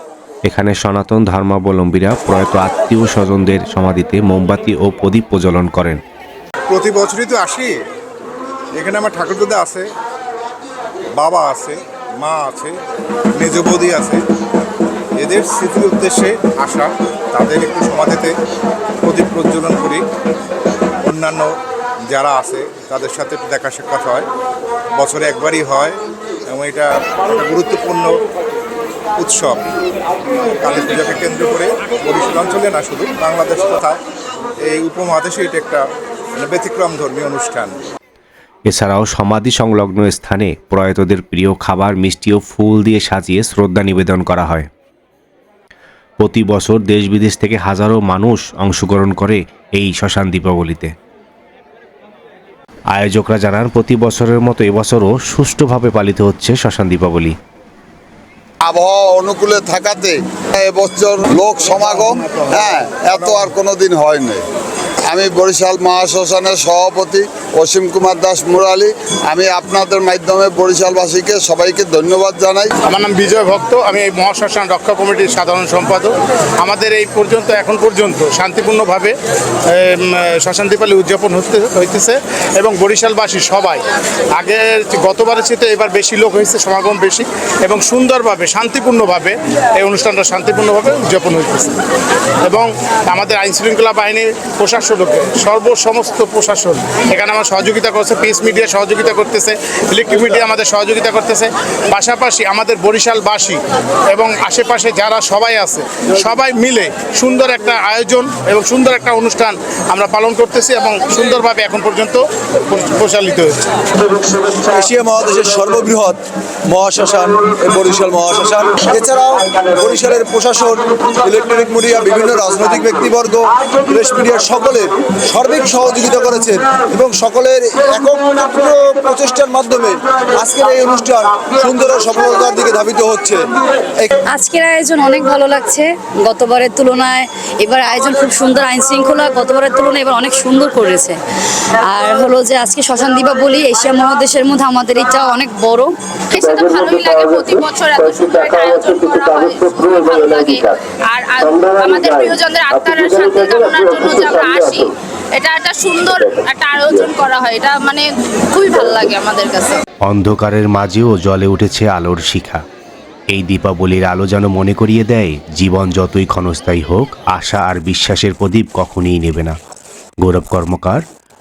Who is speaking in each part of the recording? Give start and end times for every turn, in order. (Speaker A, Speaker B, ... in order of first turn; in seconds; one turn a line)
Speaker A: 0.5-6.0
Speaker B: 6.7-7.7
Speaker B: 8.7-9.9
Speaker B: 11.2-12.8
Speaker B: 13.4-14.2
Speaker B: 15.2-18.3
Speaker B: 19.0-20.0
Speaker B: 21.0-21.5
Speaker B: 22.1-24.3
Speaker B: 24.9-28.1
Speaker B: 29.2-29.6
Speaker B: 30.6-34.0
Speaker B: 34.6-35.8
Speaker B: 36.4-37.7
Speaker A: 38.7-44.7
Speaker A: 46.2-50.9
Speaker A: 52.9-57.3
Speaker C: 58.6-64.4
Speaker C: 65.1-72.7
Speaker D: 72.8-79.1
Speaker D: 79.7-91.8
Speaker D: 92.4-113.6
Speaker E: 114.6-134.1
Speaker F: 134.3-141.2
Speaker F: 141.8-145.9
Speaker G: 146.3-159.8
Speaker A: 160.1-162.6
Speaker A: 163.3-169.5
Speaker A: 170.2-171.0